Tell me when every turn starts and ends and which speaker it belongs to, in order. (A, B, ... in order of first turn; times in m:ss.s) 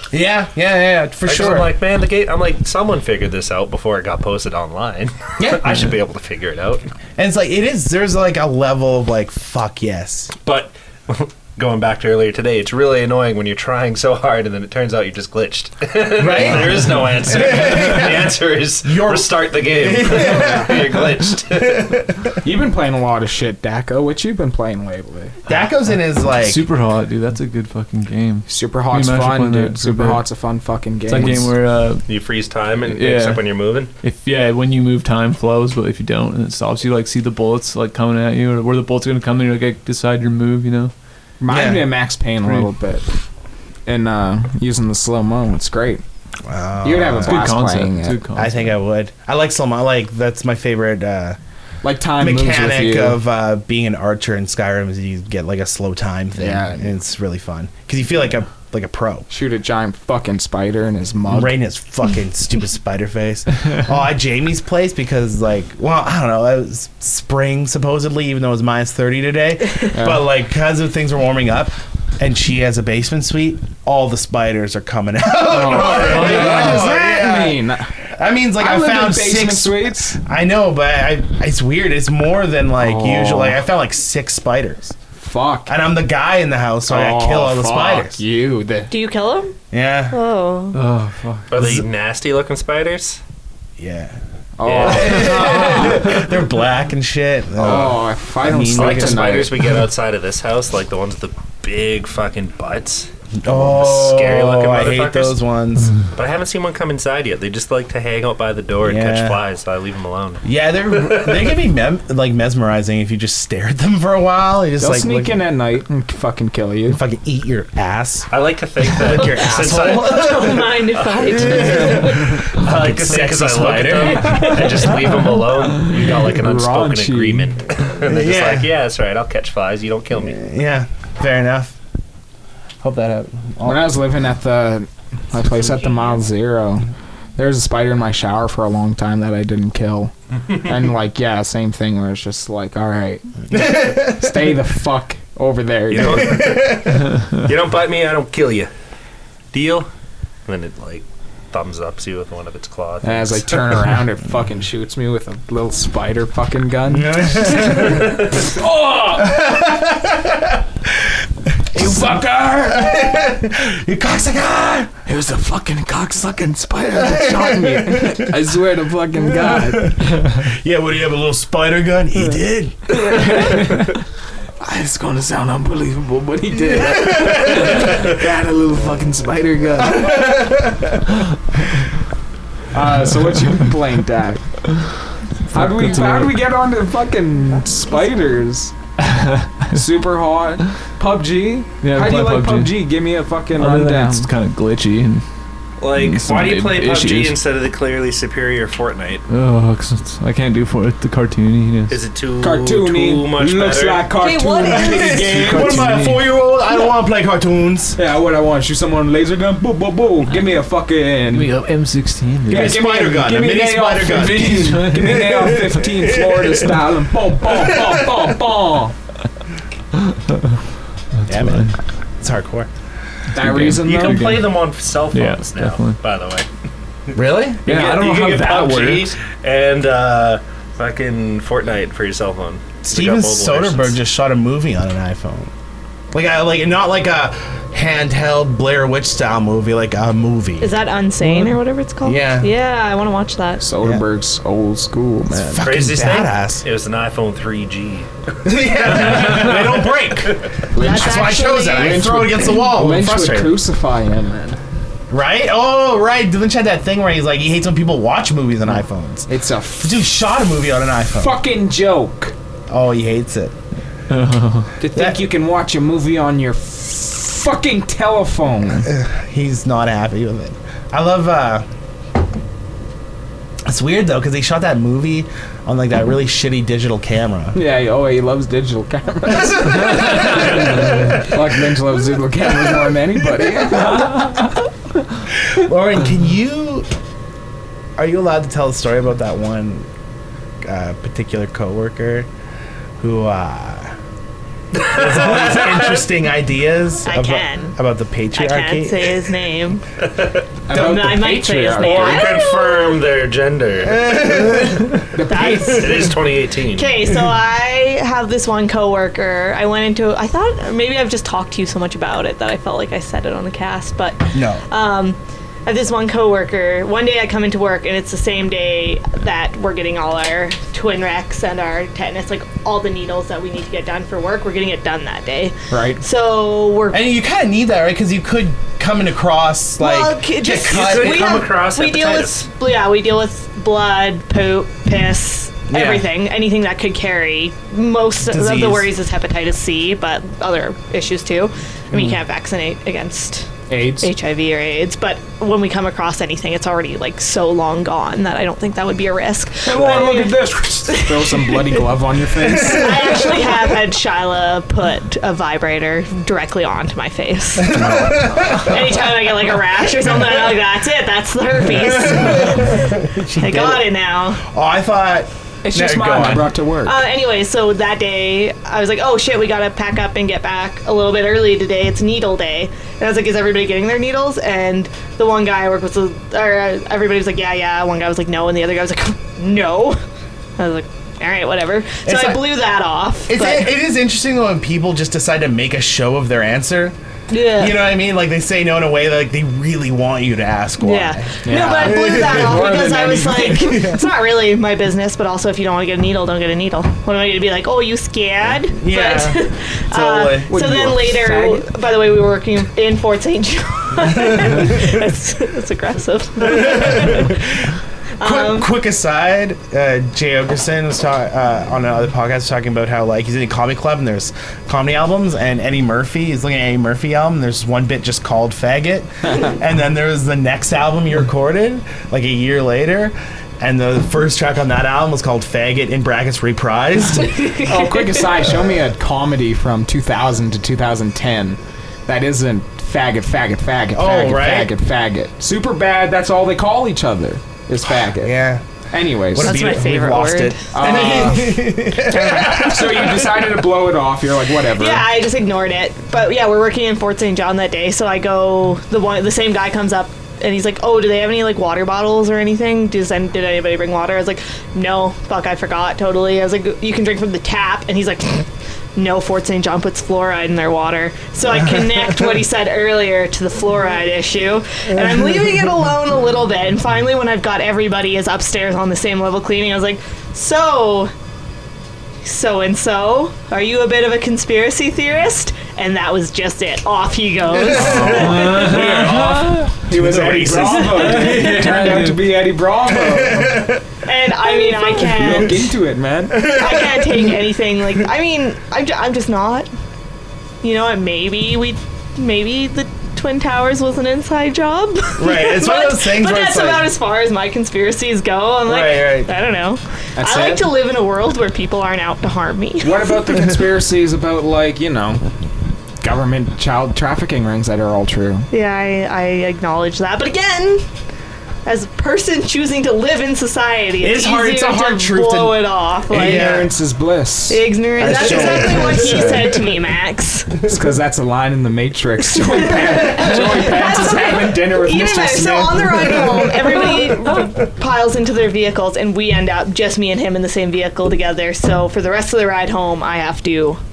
0:00.1-0:01.7 A
0:01.2-0:06.8 B
0:05.4-0:05.9 A
0:07.2-0:10.3 A
0:10.4-0:21.9 B
0:16.2-0:22.3 A
0:20.2-0:20.7 C
0:22.4-0:25.4 C
0:25.5-0:26.6 A
0:26.3-0:30.2 D
0:28.5-0:31.5 C
0:31.1-0:32.1 D
0:32.1-0:33.9 B
0:32.8-0:33.4 D
0:34.0-0:40.9 D
0:41.4-0:43.0 C
0:41.5-0:41.9 A
0:42.4-0:42.7 D
0:43.8-0:46.0 C
0:46.4-0:47.4 A
0:46.8-0:48.2 C
0:47.2-0:48.7 D
0:48.3-0:51.4 A
0:51.8-0:53.2 C
0:52.2-0:59.3 A
0:56.4-0:56.9 C
0:59.3-1:01.6 C
1:01.3-1:24.9 A
1:09.9-1:10.2 C
1:15.4-1:17.9 C
1:18.6-1:20.2 C
1:22.8-1:23.6 C
1:25.2-1:25.7 C
1:25.6-1:28.2 A
1:26.9-1:28.9 C
1:28.9-1:29.6 E
1:29.7-1:30.2 A
1:30.1-1:30.8 E
1:30.7-1:31.5 D
1:31.5-1:33.2 B
1:33.8-1:34.2 A
1:34.6-1:36.2 C
1:34.6-1:35.7 B
1:34.8-1:39.4 A
1:37.6-1:39.7 C
1:38.7-1:45.4 B
1:43.4-1:46.0 A
1:46.1-1:51.6 B
1:48.8-1:49.4 A
1:50.4-1:55.4 A
1:54.8-1:57.0 C
1:56.9-1:58.3 A
1:58.3-2:10.4 B
1:58.8-2:04.8 A
1:59.1-2:02.4 E
2:05.9-2:07.5 C
2:08.0-2:08.7 A
2:10.2-2:11.8 A
2:12.8-2:14.0 A
2:13.6-2:26.4 C
2:23.5-2:24.5 A
2:25.9-2:28.7 B
2:25.9-2:27.1 A
2:29.5-2:29.9 B
2:30.4-2:33.8 B
2:33.0-2:39.5 C
2:36.9-2:38.1 A
2:39.2-2:40.6 A
2:41.7-2:43.0 C
2:41.7-2:44.9 A
2:45.0-2:50.3 C
2:46.9-2:48.3 A
2:49.3-2:53.6 A
2:53.1-2:53.8 C
2:54.6-3:00.3 C
2:56.8-2:57.8 A
2:59.8-3:01.0 A
3:02.7-3:04.5 C
3:05.5-3:08.7 C
3:05.5-3:06.3 D
3:09.1-3:09.7 D
3:09.7-3:14.3 C
3:11.8-3:12.8 D
3:13.6-3:15.2 D
3:15.8-3:19.2 B
3:15.9-3:17.4 D
3:19.3-3:22.0 D
3:21.9-3:24.1 B
3:22.4-3:26.2 C
3:24.1-3:25.5 E
3:24.6-3:28.0 A
3:25.6-3:26.0 D
3:28.0-3:31.5 C
3:31.3-3:32.8 D
3:32.5-3:38.9 C
3:32.5-3:34.8 A
3:34.0-3:35.6 D
3:36.2-3:36.6 A
3:41.2-3:41.7 D
3:41.3-3:42.7 A
3:43.3-3:44.4 C
3:43.4-3:44.6 D
3:43.8-3:46.5 B
3:45.1-3:46.0 D
3:47.1-3:47.6 A
3:47.6-3:49.0 C
3:47.6-3:54.0 B
3:47.7-3:47.9 D
3:52.8-3:55.5 A
3:56.1-4:00.8 A
4:00.6-4:03.6 E
4:02.0-4:02.5 A
4:03.6-4:05.7 C
4:05.3-4:06.6 A
4:05.6-4:10.6 B
4:08.4-4:13.6 A
4:10.7-4:14.6 C
4:10.8-4:12.0 E
4:15.1-4:21.4 A
4:19.3-4:20.1 C
4:21.1-4:22.3 C
4:22.7-4:23.5 A
4:24.1-4:24.7 D
4:24.8-4:28.9 C
4:24.9-4:25.2 A
4:28.9-4:31.6 A
4:33.6-4:37.6 A
4:37.5-4:44.5 C
4:39.2-4:41.2 A
4:45.5-4:46.9 A
4:48.0-4:49.9 A
4:50.6-4:52.3 A
4:53.0-4:54.0 A
4:54.7-4:56.0 B
4:54.9-4:59.2 A
4:57.0-4:57.8 E
4:58.3-4:59.8 E
5:00.0-5:00.4 B
5:00.7-5:02.3 C
5:00.7-5:03.0 E
5:01.7-5:05.0 B
5:03.9-5:04.9 A
5:05.1-5:06.0 C
5:05.2-5:06.1 E
5:05.6-5:07.0 B
5:06.7-5:27.0 E
5:14.3-5:14.6 A
5:25.7-5:26.0 C
5:26.9-5:31.4 A
5:29.8-5:50.4 E
5:30.6-5:32.5 B
5:35.7-5:36.1 A
5:38.2-5:38.9 A
5:43.7-5:44.1 C
5:49.6-5:53.3 C
5:50.9-5:51.8 E
5:52.5-5:57.8 E
5:52.5-5:53.2 A
5:57.6-5:58.8 A
5:57.7-5:58.6 C
5:58.4-6:04.4 E
6:01.6-6:06.5 A
6:05.6-6:07.0 C
6:06.8-6:20.0 E
6:20.6-6:23.7 E
6:22.0-6:22.5 A
6:23.3-6:26.9 A
6:27.3-6:27.8 E
6:27.5-6:32.8 A
6:30.8-6:47.4 E
6:31.4-6:33.7 C
6:33.4-6:34.1 A
6:38.8-6:40.6 A
6:40.4-6:41.7 C
6:44.0-6:44.9 A
6:46.4-6:47.4 A
6:48.2-6:48.7 E
6:48.2-7:07.4 A
7:07.2-7:08.2 E
7:07.6-7:18.4 C
7:13.9-7:14.7 A
7:18.0-7:18.6 A
7:18.9-7:19.7 C
7:19.3-7:23.5 A
7:19.4-7:20.6 E
7:20.7-7:21.8 C
7:22.0-7:23.1 E
7:22.4-7:25.0 C
7:24.8-7:51.1 E
7:41.7-7:42.1 A
7:45.0-7:45.6 A
7:52.2-7:59.1 E
7:57.5-8:01.6 A
7:57.7-8:03.7 C
7:58.0-7:59.7 D
8:00.5-8:01.7 E
8:01.2-8:02.2 D
8:02.9-8:03.8 A
8:04.0-8:05.7 E
8:04.9-8:06.6 C
8:06.3-8:07.4 A
8:06.3-8:09.7 E
8:10.6-8:23.2 E
8:15.2-8:16.9 A
8:18.6-8:19.3 A
8:20.2-8:20.7 C
8:22.8-8:25.3 C
8:26.0-8:28.5 C
8:28.5-8:30.8 E
8:31.6-8:36.6 E
8:34.0-8:36.7 A
8:36.1-8:39.5 C
8:37.5-8:40.6 E
8:38.0-8:39.7 A
8:40.6-8:46.5 C
8:42.4-8:53.8 E
8:46.1-8:47.0 A